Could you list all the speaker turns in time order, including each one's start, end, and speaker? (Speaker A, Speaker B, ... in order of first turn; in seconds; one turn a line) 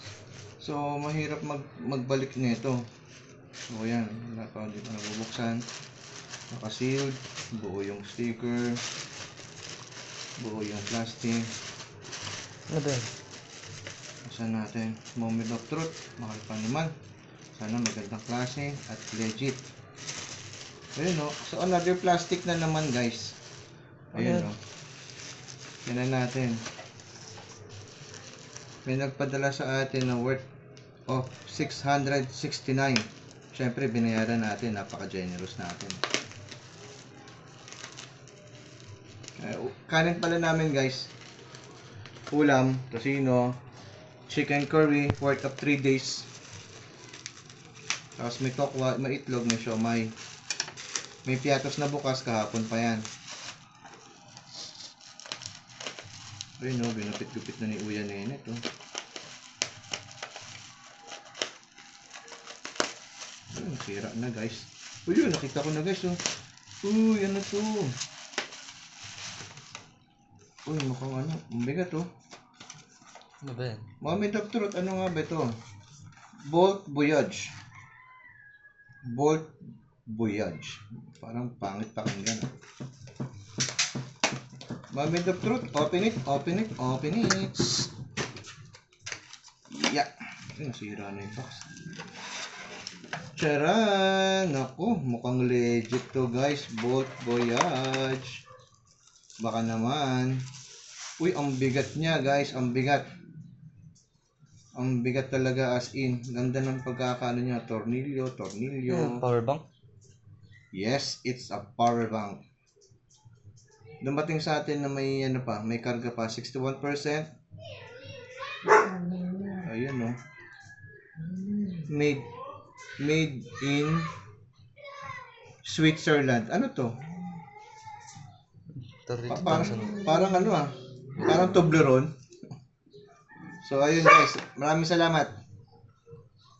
Speaker A: 0.6-2.8
Speaker A: 3.7-5.6
Speaker A: 6.5-8.8
Speaker A: 10.4-11.5
Speaker B: 12.7-13.1
Speaker A: 14.2-16.9
Speaker A: 17.6-19.7
Speaker A: 21.0-23.4
Speaker A: 24.1-24.6
Speaker B: 24.2-24.5
Speaker A: 25.8-26.6
Speaker A: 28.9-30.5
Speaker A: 31.1-36.0
Speaker A: 39.4-41.1
Speaker A: 42.3-43.6
Speaker A: 44.3-46.3
Speaker A: 48.2-50.1
Speaker A: 51.3-53.0
Speaker A: 56.6-58.6
Speaker A: 63.5-66.2
Speaker A: 66.8-67.9
Speaker A: 70.7-72.1
Speaker B: 73.4-73.9
Speaker A: 74.0-75.5
Speaker A: 76.5-77.5
Speaker A: 79.1-79.5
Speaker A: 80.1-82.5
Speaker A: 84.9-87.9
Speaker A: 89.7-91.7
Speaker A: 93.3-98.4
Speaker A: 99.4-100.4
Speaker A: 101.2-103.0
Speaker A: 104.8-109.2
Speaker B: 108.9-109.6
Speaker A: 110.7-112.4
Speaker A: 114.0-117.3
Speaker A: 119.5-120.2
Speaker A: 121.9-122.3
Speaker A: 123.0-124.1
Speaker A: 125.6-127.0
Speaker B: 128.9-130.1
Speaker A: 129.3-132.1
Speaker A: 133.6-135.3